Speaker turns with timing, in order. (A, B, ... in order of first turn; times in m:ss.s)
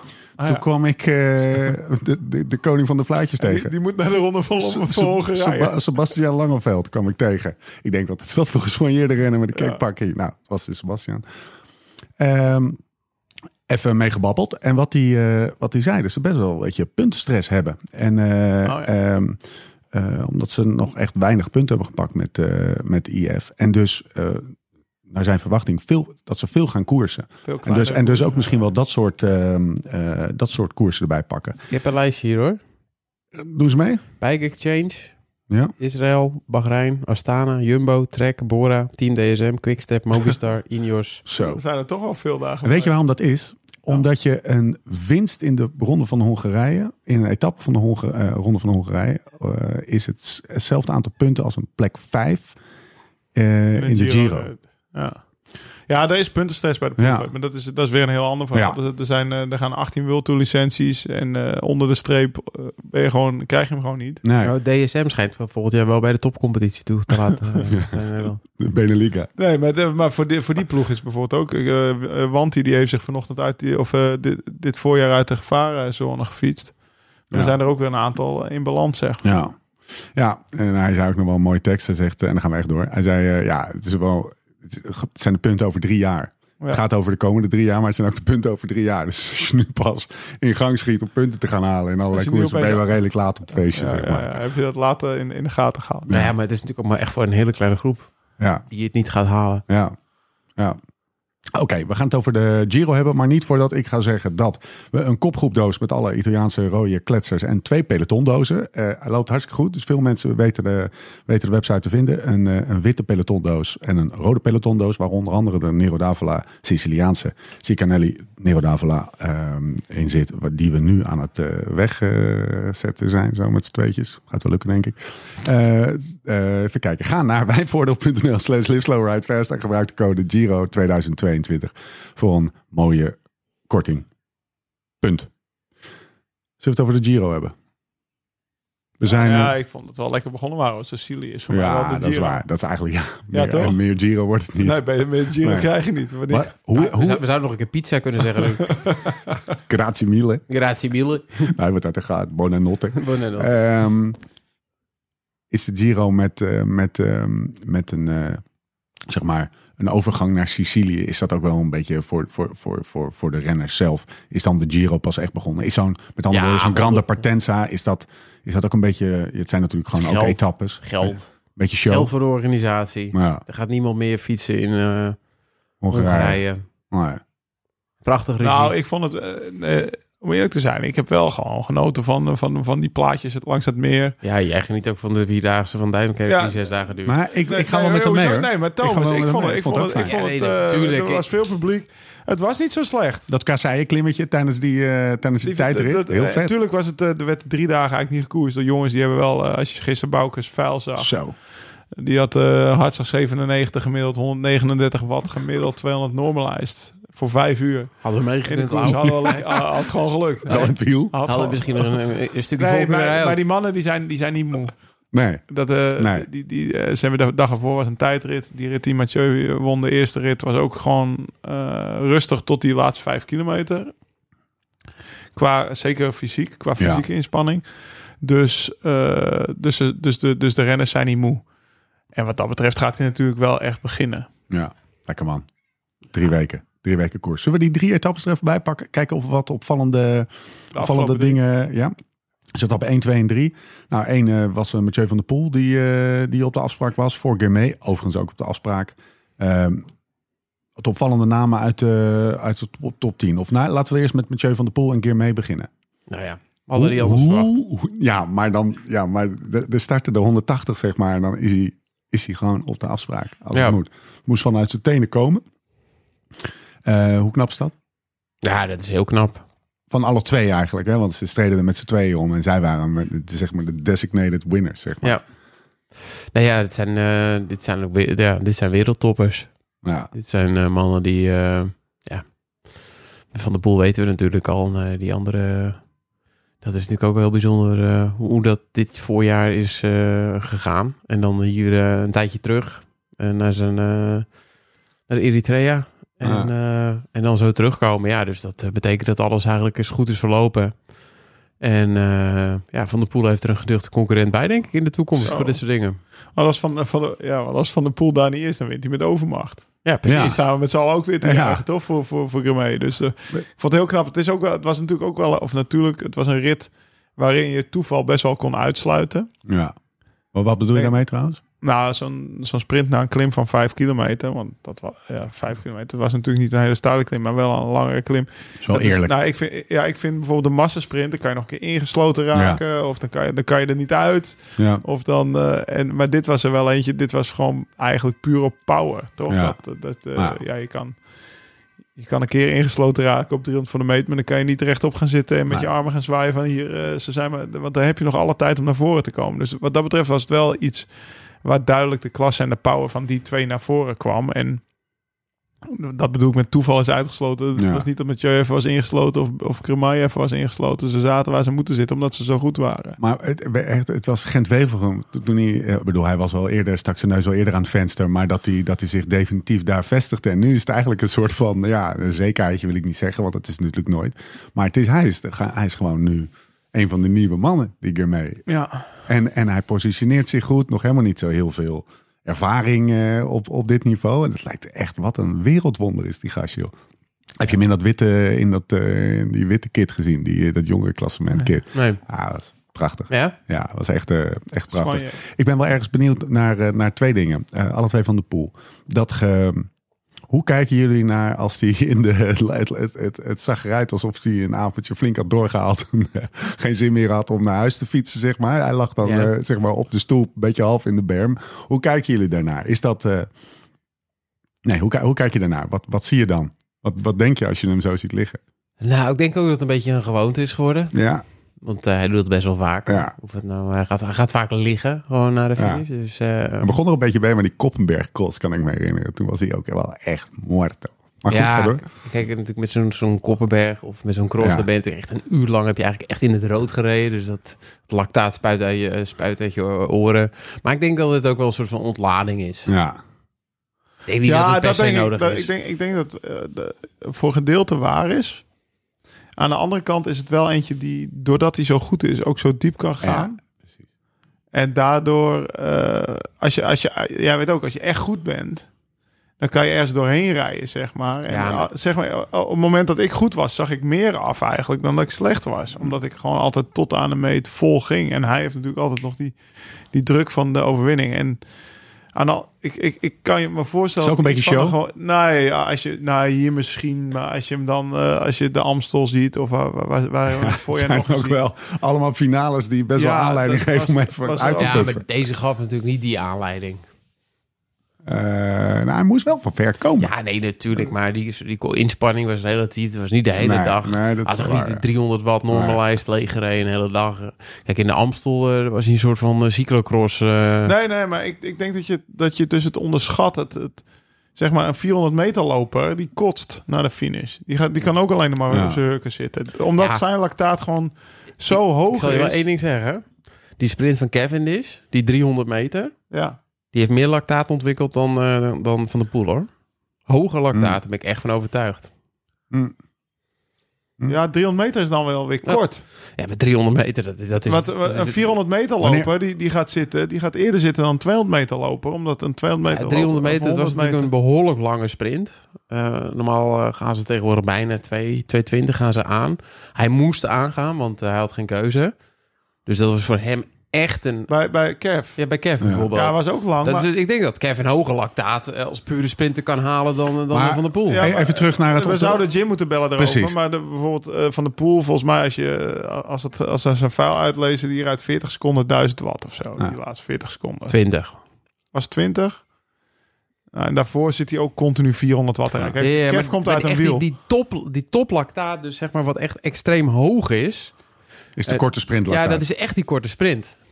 0:00.4-0:00.6 A
0:00.4-0:03.7 B
0:03.4-0:05.8 A
0:04.6-0:11.2 B
0:09.5-0:09.8 A
0:12.2-0:12.8 B
0:13.7-0:19.4 B
0:18.6-0:18.9 A
0:19.9-0:24.5 B
0:25.1-0:31.6 B
0:27.4-0:28.6 A
0:31.7-0:32.6 C
0:33.4-0:34.0 B
0:34.2-0:35.1 C
0:35.8-0:41.2 C
0:41.3-0:41.6 B
0:41.4-0:43.0 A
0:42.6-0:52.6 B
0:53.4-0:54.5 B
0:53.8-0:55.2 A
0:55.9-1:04.2 A
0:57.0-0:57.3 B
0:58.5-0:58.8 B
1:04.2-1:04.5 B
1:04.4-1:08.4 C
1:08.6-1:09.3 B
1:09.4-1:16.8 A
1:17.3-1:19.2 A
1:19.2-1:19.6 B
1:20.2-1:34.3 B
1:32.1-1:33.0 A
1:33.6-1:36.1 A
1:36.1-1:38.1 C
1:38.4-1:38.6 B
1:38.7-1:39.6 C
1:39.7-1:40.0 B
1:41.5-2:13.2 B
2:13.7-2:14.1 B
2:15.0-2:15.3 B
2:16.6-2:17.5 B
2:19.0-2:19.6 B
2:19.0-2:22.4 A
2:21.5-2:24.8 B
2:23.3-2:23.8 A
2:24.6-2:26.5 A
2:25.4-2:25.7 B
2:26.3-2:27.2 B
2:26.8-2:28.8 C
2:28.6-2:29.3 A
2:29.7-2:30.4 B
2:30.5-2:31.5 C
2:31.5-2:34.2 B
2:32.9-2:33.5 C
2:35.5-2:38.4 B
2:39.1-2:52.1 B
2:46.3-2:47.2 C
2:50.0-2:51.2 C
2:51.9-2:55.2 C
2:53.1-2:53.4 B
2:55.8-2:57.2 B
2:55.9-2:56.6 C
2:58.0-2:58.8 C
2:58.4-3:04.2 A
3:04.2-3:07.2 C
3:06.3-3:06.6 A
3:07.1-3:10.1 B
3:07.5-3:13.3 A
3:10.0-3:11.3 C
3:13.3-3:16.5 B
3:15.4-3:21.2 A
3:21.0-3:21.4 B
3:21.9-3:31.9 A
3:28.0-3:29.4 C
3:30.5-3:31.2 B
3:31.2-3:33.4 C
3:32.6-3:34.7 A
3:35.1-3:35.4 B
3:35.5-3:43.9 A
3:36.0-3:36.3 B
3:45.4-3:47.6 A
3:46.8-3:47.0 B
3:48.2-3:51.4 A
3:52.1-3:54.3 A
3:54.5-3:55.5 B
3:56.1-4:01.9 B
4:00.7-4:01.4 A
4:02.6-4:09.9 B
4:10.8-4:15.7 B
4:16.1-4:17.5 C
4:16.7-4:25.4 B
4:26.8-4:27.7 B
4:28.4-4:29.4 C
4:29.9-4:35.2 B
4:36.3-4:39.5 C
4:39.8-4:40.1 B
4:40.1-4:42.3 C
4:43.3-4:45.8 C
4:46.6-4:54.3 C
4:55.1-5:00.8 C
4:56.2-4:56.5 B
5:01.6-5:06.0 C
5:05.2-5:05.6 A
5:06.4-5:19.3 A
5:09.8-5:10.4 C
5:10.1-5:10.4 B
5:11.2-5:11.6 B
5:19.5-5:19.8 B
5:20.3-5:21.4 B
5:21.6-5:41.0 A
5:28.6-5:29.2 B
5:32.3-5:32.6 B
5:34.6-5:34.8 B
5:39.3-5:39.6 B
5:42.0-5:50.9 A
5:51.4-5:54.6 A
5:55.7-6:03.0 A
5:57.6-5:57.8 B
6:03.0-6:18.5 B
6:18.5-6:18.8 A
6:19.1-6:26.7 B
6:27.4-6:39.7 B
6:31.7-6:32.0 C
6:33.1-6:33.4 C
6:34.7-6:35.2 A
6:40.3-6:53.3 B
6:49.0-6:49.3 C
6:54.6-6:58.4 B
6:58.8-7:01.0 C
7:00.9-7:01.2 B
7:01.6-7:06.8 C
7:02.9-7:03.1 B
7:05.6-7:05.8 B
7:06.6-7:11.8 B
7:11.3-7:22.7 C
7:14.4-7:14.7 B
7:22.7-7:23.0 B
7:24.1-7:25.5 C
7:24.2-7:28.4 A
7:29.4-7:33.4 A
7:33.0-7:33.3 B
7:34.5-7:38.7 A
7:39.4-7:49.4 A
7:41.3-7:41.7 C
7:49.9-7:51.4 A
7:52.1-8:01.4 A
7:54.0-7:54.8 B
8:00.4-8:05.0 B
8:03.0-8:04.9 A
8:04.6-8:06.8 C
8:08.1-8:10.1 B
8:10.0-8:20.7 C
8:13.4-8:14.8 B
8:15.5-8:15.8 B
8:20.6-8:23.8 A
8:24.4-8:32.4 A
8:28.5-8:28.8 B
8:29.8-8:30.0 C
8:31.5-8:33.1 C
8:33.6-8:36.0 C
8:36.1-8:36.4 A
8:36.7-8:39.5 C
8:40.1-8:41.9 C
8:40.5-8:40.8 B
8:42.5-8:42.8 B
8:44.1-8:45.8 A
8:46.2-8:48.4 C
8:47.5-8:54.1 A
8:48.8-8:49.1 B
8:52.7-9:01.9 C
9:02.7-9:04.3 C
9:04.3-9:05.2 A
9:05.2-9:11.1 C
9:05.6-9:05.9 B
9:05.9-9:06.9 A
9:10.3-9:12.2 B
9:10.9-9:20.8 A
9:13.0-9:13.4 B
9:20.7-9:21.2 C
9:21.7-9:22.4 A
9:23.5-9:27.0 A
9:25.8-9:30.8 C
9:31.4-9:32.4 B
9:31.5-9:33.6 C